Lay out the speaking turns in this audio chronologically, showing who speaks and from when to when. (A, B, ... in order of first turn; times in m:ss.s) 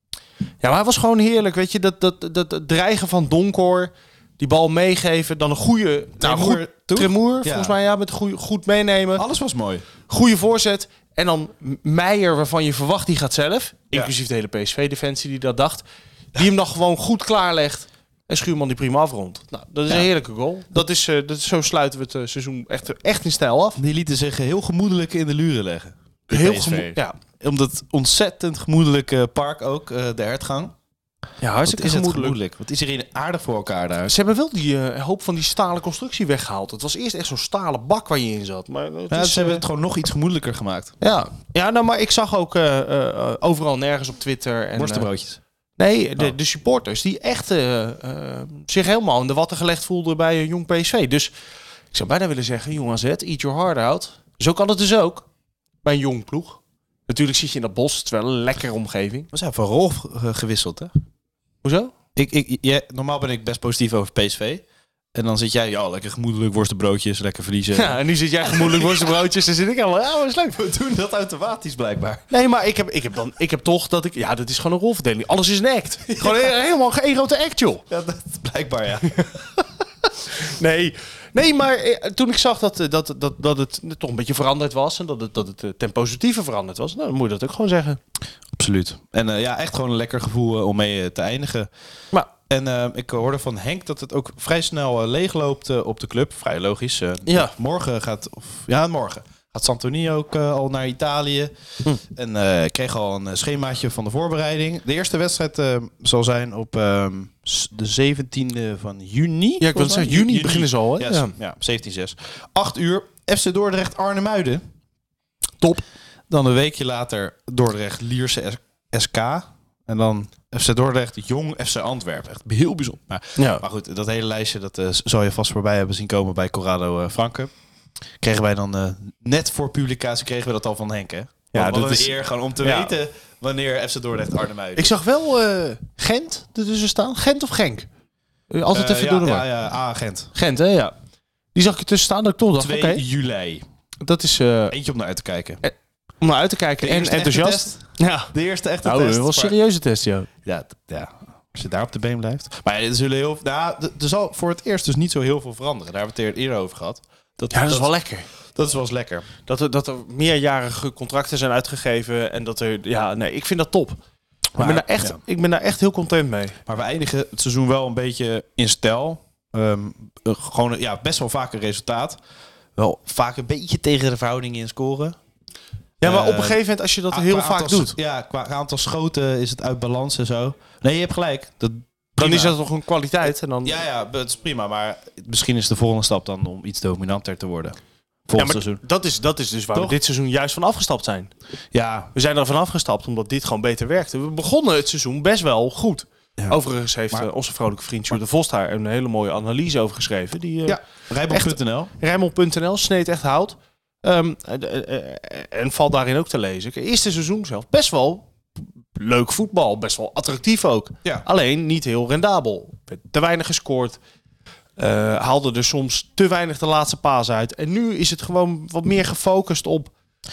0:00.6-0:09.2 A
0:06.2-0:07.8 B
0:09.2-0:09.9 B
0:10.1-0:15.8 A
0:16.4-0:23.8 A
0:23.8-0:30.7 B
0:26.3-0:27.1 A
0:31.4-0:32.4 A
0:31.6-0:34.1 B
0:34.1-0:39.6 A
0:39.1-0:40.9 B
0:41.0-0:45.0 A
0:44.8-0:45.4 B
0:45.8-0:51.3 A
0:51.9-0:55.2 A
0:55.8-0:59.3 A
0:59.3-1:00.9 B
1:01.6-1:01.9 A
1:02.2-1:09.1 B
1:07.8-1:10.1 A
1:10.2-1:12.2 B
1:12.3-1:17.8 A
1:16.1-1:16.5 B
1:17.9-1:19.3 B
1:20.3-1:28.0 A
1:28.5-1:31.7 B
1:32.5-1:54.6 B
1:49.6-1:51.3 A
1:56.3-2:07.5 B
2:08.2-2:15.0 B
2:11.6-2:12.0 A
2:14.8-2:17.9 A
2:18.5-2:19.4 A
2:18.7-2:20.3 B
2:20.4-2:21.0 A
2:21.5-2:23.0 A
2:22.6-2:23.6 B
2:24.0-2:24.7 A
2:24.7-2:25.6 B
2:26.2-2:28.2 A
2:26.8-2:29.6 B
2:28.9-2:30.3 A
2:30.4-2:37.9 B
2:37.5-2:38.2 A
2:38.5-2:39.3 B
2:39.5-2:44.0 A
2:44.6-2:45.2 B
2:44.6-2:46.6 A
2:46.7-2:52.2 B
2:52.8-2:55.2 B
2:56.0-3:02.6 B
2:56.0-2:57.9 A
3:02.2-3:03.7 A
3:03.6-3:07.8 B
3:08.3-3:08.8 B
3:08.4-3:11.3 A
3:11.7-3:12.1 B
3:12.1-3:20.7 A
3:20.7-3:21.9 B
3:21.3-3:28.2 A
3:29.0-3:34.0 A
3:34.8-3:39.9 A